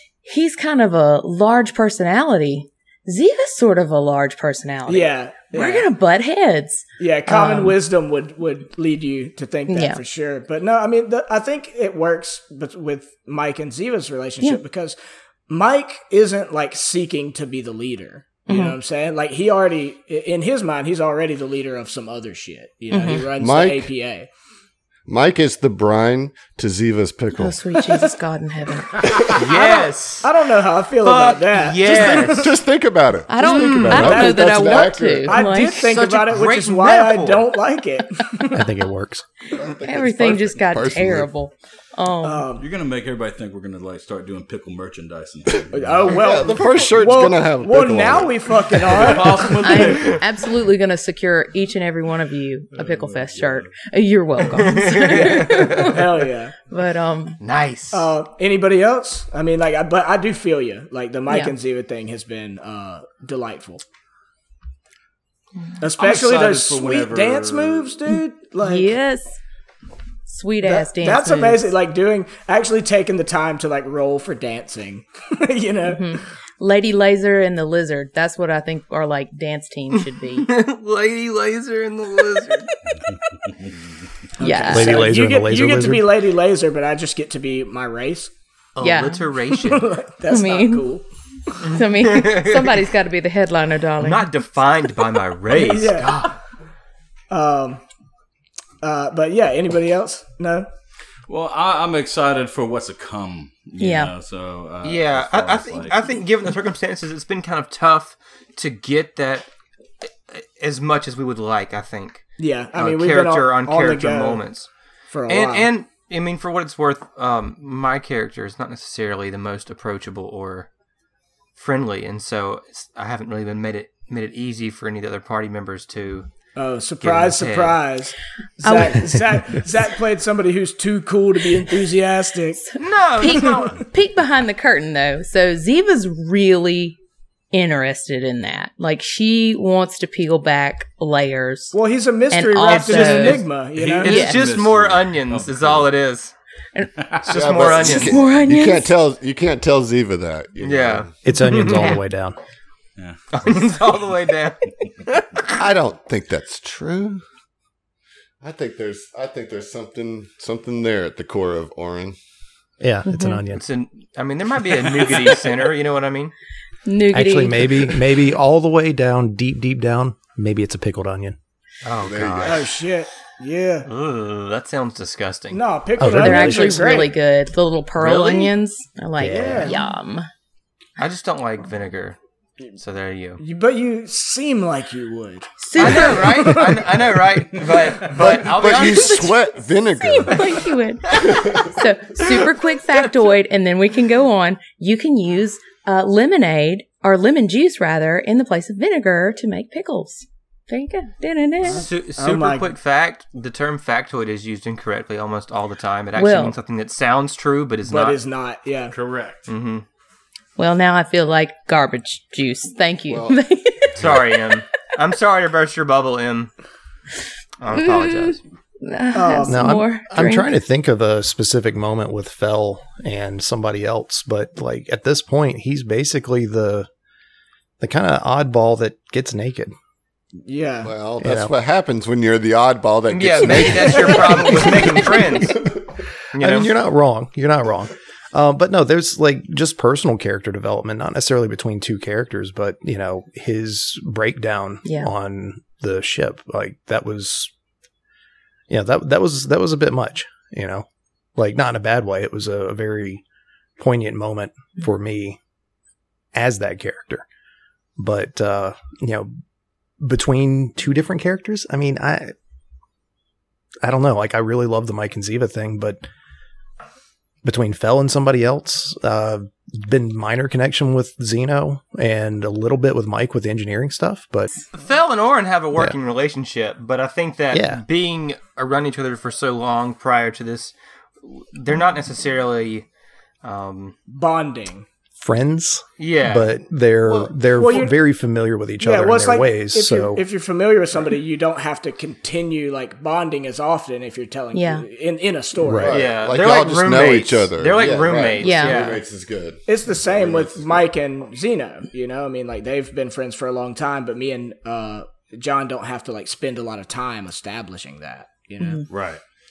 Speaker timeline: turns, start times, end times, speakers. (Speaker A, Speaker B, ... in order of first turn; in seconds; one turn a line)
Speaker A: 0.2-7.8
Speaker B: 4.9-5.9
Speaker B: 7.0-15.0
Speaker A: 9.7-10.0
Speaker B: 15.5-24.3
Speaker A: 18.5-18.8
Speaker A: 22.9-23.2
Speaker C: 23.4-23.9
Speaker C: 25.1-27.6
Speaker A: 27.4-29.1
Speaker C: 29.0-29.4
Speaker D: 29.4-30.5
Speaker B: 29.5-32.6
Speaker D: 31.0-32.5
Speaker C: 32.2-35.4
Speaker A: 33.3-35.9
Speaker D: 33.4-34.1
Speaker B: 33.9-38.7
Speaker D: 35.7-37.5
Speaker E: 38.5-39.3
Speaker C: 39.5-41.3
Speaker A: 39.6-42.5
Speaker B: 42.2-42.7
Speaker F: 42.6-46.1
Speaker B: 45.7-49.9
Speaker C: 46.1-49.1
Speaker F: 49.0-50.2
Speaker A: 49.6-56.1
Speaker F: 52.8-53.7
Speaker D: 54.5-55.9
Speaker B: 55.8-56.6
Speaker A: 56.6-57.4
Speaker D: 57.4-58.1
Speaker B: 57.9-63.8
Speaker B: 65.8-69.0
Speaker F: 66.0-68.0
Speaker A: 68.6-69.4
Speaker A: 70.3-71.7
Speaker B: 70.6-76.2
Speaker A: 75.9-80.5
Speaker D: 80.3-82.7
Speaker F: 83.1-83.8
Speaker B: 84.4-88.3
Speaker A: 84.4-85.0
Speaker E: 84.7-86.1
Speaker D: 88.8-89.9
Speaker A: 88.8-89.3
Speaker B: 89.5-91.1
Speaker A: 90.3-90.9
Speaker A: 91.6-94.3
Speaker D: 91.6-92.8
Speaker D: 94.0-96.4
Speaker B: 95.6-96.3
Speaker B: 97.3-97.8
Speaker B: 98.8-100.7
Speaker F: 101.3-106.0
Speaker A: 103.8-104.1
Speaker D: 104.8-109.5
Speaker D: 110.3-114.7
Speaker B: 112.4-114.4
Speaker B: 115.1-115.7
Speaker D: 115.3-120.7
Speaker D: 121.6-126.3
Speaker B: 126.6-132.7
Speaker D: 127.0-127.8
Speaker A: 128.6-129.6
Speaker A: 132.7-137.0
Speaker D: 132.8-133.8
Speaker A: 137.5-141.8
Speaker B: 141.7-144.2
Speaker A: 142.3-143.5
Speaker D: 142.7-146.3
Speaker F: 143.7-145.9
Speaker A: 144.1-144.4
Speaker F: 147.0-147.3
Speaker D: 147.3-148.2
Speaker C: 147.3-151.1
Speaker A: 147.8-148.9
Speaker D: 150.6-152.0
Speaker E: 151.2-152.4
Speaker F: 153.0-153.4
Speaker D: 153.3-155.6
Speaker C: 155.6-157.2
Speaker C: 158.4-162.2
Speaker E: 162.8-163.6
Speaker A: 163.1-163.4
Speaker D: 163.5-166.3
Speaker A: 166.9-167.9
Speaker E: 167.1-171.4
Speaker D: 171.8-172.7
Speaker C: 172.0-172.7
Speaker B: 172.4-173.9
Speaker D: 173.9-175.6
Speaker B: 175.5-177.1
Speaker E: 176.0-176.7
Speaker A: 176.1-180.3
Speaker D: 178.0-178.5
Speaker E: 179.2-179.7
Speaker B: 179.2-179.8
Speaker D: 181.0-182.2
Speaker D: 182.7-183.4
Speaker B: 183.4-187.0
Speaker A: 185.6-186.6
Speaker D: 185.8-189.4
Speaker C: 188.1-190.6
Speaker A: 188.7-189.3
Speaker A: 190.0-201.8
Speaker C: 191.1-191.7
Speaker D: 192.3-193.3
Speaker B: 201.6-202.7
Speaker D: 201.7-208.2
Speaker A: 206.2-206.6
Speaker B: 207.9-208.9
Speaker F: 208.9-209.5
Speaker D: 209.5-209.8
Speaker A: 210.6-214.1
Speaker C: 213.1-213.4
Speaker C: 214.0-214.2
Speaker D: 214.0-216.5
Speaker D: 217.6-218.4
Speaker A: 218.8-220.5
Speaker B: 219.1-219.8
Speaker E: 219.5-226.9
Speaker E: 227.8-229.7
Speaker B: 230.4-230.9
Speaker C: 230.8-235.7
Speaker E: 231.2-231.5
Speaker D: 233.1-235.6
Speaker D: 236.3-236.7
Speaker E: 236.4-247.5
Speaker A: 244.8-245.1
Speaker E: 248.7-250.9
Speaker E: 251.4-253.2
Speaker E: 253.8-255.4
Speaker E: 256.3-257.2
Speaker E: 258.0-259.3
Speaker E: 260.0-262.3
Speaker E: 263.8-266.0
Speaker E: 267.4-274.5
Speaker D: 274.7-282.9
Speaker E: 277.5-277.8
Speaker D: 283.4-284.0
Speaker B: 284.1-284.9
Speaker E: 285.2-290.2
Speaker D: 286.0-286.5
Speaker C: 287.1-287.4
Speaker B: 287.6-287.9
Speaker B: 288.8-296.0
Speaker A: 294.5-294.9
Speaker E: 295.6-295.9
Speaker C: 295.8-300.8
Speaker D: 295.9-299.0
Speaker A: 298.4-298.9
Speaker B: 299.7-308.9
Speaker F: 308.9-309.2